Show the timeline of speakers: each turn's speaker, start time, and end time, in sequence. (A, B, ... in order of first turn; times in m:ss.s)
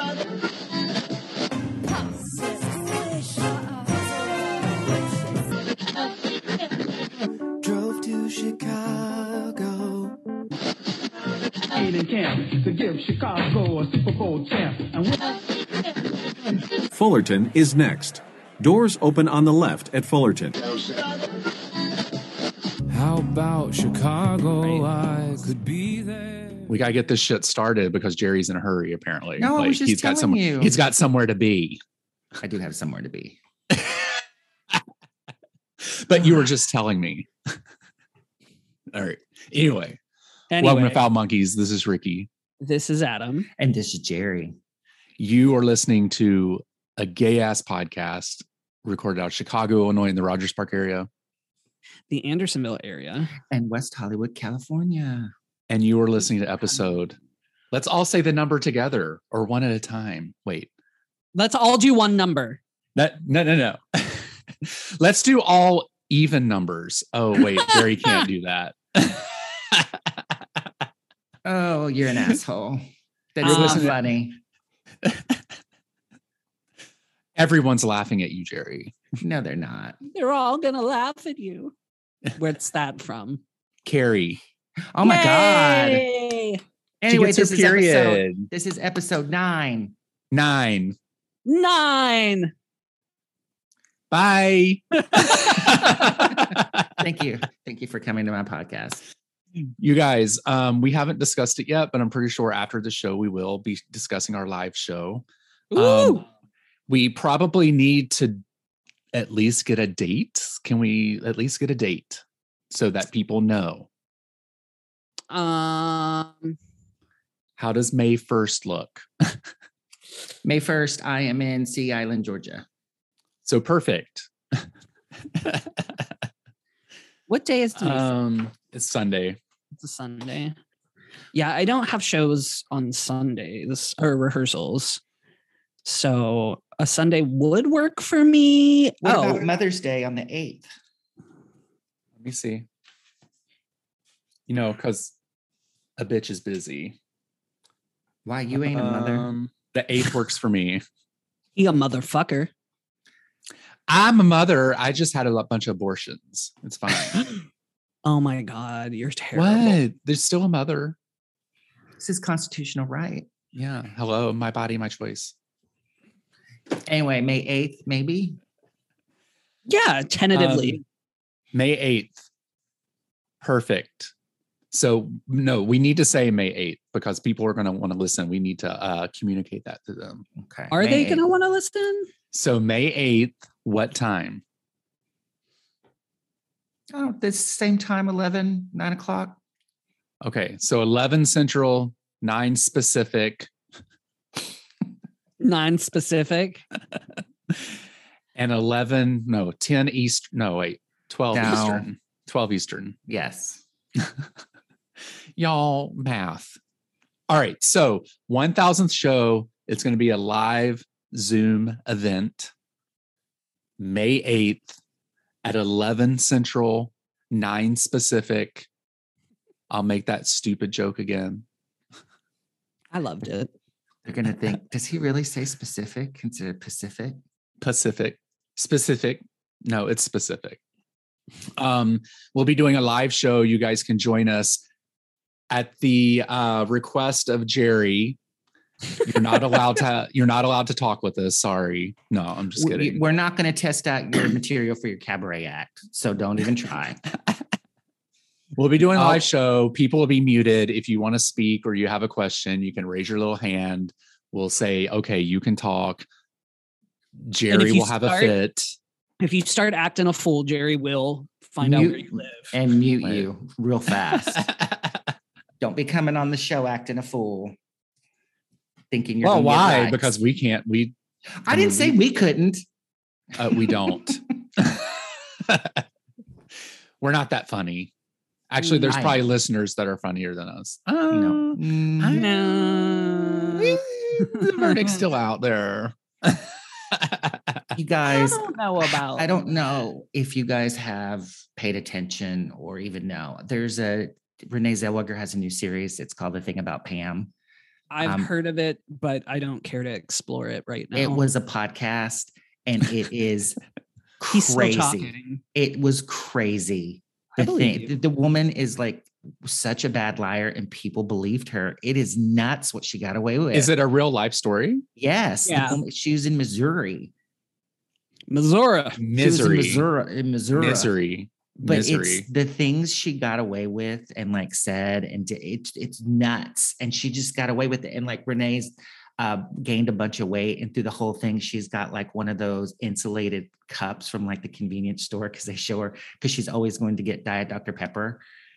0:02.4-0:03.5 A
0:07.6-0:10.2 A
0:11.8-0:15.1 B
0:16.9-0:20.6 A
0:22.9-0:26.7 C
0:24.6-0:24.9 D
0:26.7-0:31.8 E
0:29.4-0:30.8 F
0:32.4-0:33.4 F
0:33.7-0:34.1 E
0:35.8-0:37.3 E
0:38.9-0:40.0 E
0:40.5-0:41.1 D
0:40.6-0:42.3 E
0:42.6-0:43.5 D
0:43.6-0:44.6 F
0:45.2-0:51.1 E
0:52.1-0:53.3 D
0:53.5-0:55.3 F
0:55.7-0:57.2 E
0:57.7-1:00.7 E
1:01.4-1:02.6 D
1:03.0-1:10.0 E
1:07.7-1:08.3 D
1:11.4-1:12.8 F
1:13.4-1:14.4 F
1:13.4-1:13.9 D
1:13.4-1:14.0 E
1:15.0-1:15.3 E
1:17.4-1:19.0 E
1:19.2-1:20.0 F
1:20.1-1:21.7 D
1:22.4-1:23.4 D
1:23.8-1:24.4 E
1:24.9-1:26.0 F
1:25.0-1:26.6 D
1:27.0-1:30.0 F
1:27.1-1:28.5 E
1:30.3-1:31.0 E
1:31.5-1:32.5 D
1:34.1-1:36.9 E
1:37.0-1:39.0 F
1:39.8-1:46.2 E
1:45.7-1:46.2 D
1:46.9-1:48.4 E
1:49.1-1:53.9 E
1:55.3-1:56.6 D
1:57.6-1:59.4 E
2:00.4-2:02.6 F
2:03.4-2:04.7 E
2:05.4-2:05.8 E
2:07.3-2:08.1 D
2:07.8-2:09.4 E
2:09.8-2:10.6 D
2:11.3-2:15.0 D
2:15.8-2:19.5 D
2:19.0-2:20.7 F
2:22.2-2:22.7 E
2:24.5-2:25.2 E
2:26.0-2:27.0 E
2:28.2-2:29.3 F
2:28.6-2:30.8 E
2:31.6-2:32.5 D
2:33.9-2:37.3 E
2:38.0-2:39.8 D
2:39.4-2:41.0 E
2:42.0-2:43.3 F
2:43.5-2:45.3 E
2:46.8-2:48.4 F
2:49.7-2:50.8 D
2:50.3-2:50.8 E
2:51.5-2:52.2 E
2:53.4-2:54.1 E
2:54.7-3:00.2 E
3:00.4-3:01.2 F
3:00.7-3:02.1 D
3:02.3-3:04.4 E
3:06.9-3:09.4 F
3:10.2-3:13.5 E
3:15.4-3:16.6 D
3:18.4-3:23.0 E
3:21.3-3:21.9 F
3:23.1-3:23.6 F
3:25.4-3:26.6 E
3:27.3-3:32.5 E
3:33.8-3:34.8 E
3:35.4-3:38.7 E
3:39.7-3:41.4 E
3:42.9-3:43.5 D
3:44.1-3:47.2 F
3:47.6-3:50.6 E
3:51.6-3:54.6 E
3:55.5-3:58.2 E
3:59.0-4:03.0 E
4:02.6-4:07.0 F
4:08.6-4:16.1 E
4:17.2-4:18.8 E
4:17.5-4:18.4 D
4:19.2-4:22.5 D
4:21.6-4:24.4 F
4:24.3-4:24.8 E
4:25.6-4:27.6 F
4:28.9-4:30.1 F
4:29.2-4:30.9 E
4:31.5-4:32.6 F
4:31.5-4:31.9 E
4:33.4-4:35.8 E
4:33.5-4:34.2 F
4:37.0-4:37.9 E
4:38.5-4:47.6 E
4:38.6-4:38.9 D
4:38.9-4:39.3 F
4:41.1-4:42.3 F
4:42.1-4:44.9 D
4:47.8-4:48.6 F
4:48.1-4:49.4 D
4:49.1-4:57.3 F
4:57.9-5:01.2 D
4:58.0-4:58.3 F
5:00.9-5:03.6 F
5:04.2-5:13.7 F
5:04.3-5:05.4 D
5:07.4-5:07.9 D
5:13.5-5:14.8 E
5:15.0-5:17.1 F
5:15.5-5:15.8 D
5:18.3-5:19.0 D
5:19.0-5:19.9 E
5:19.2-5:20.9 F
5:20.6-5:22.3 E
5:21.6-5:38.2 F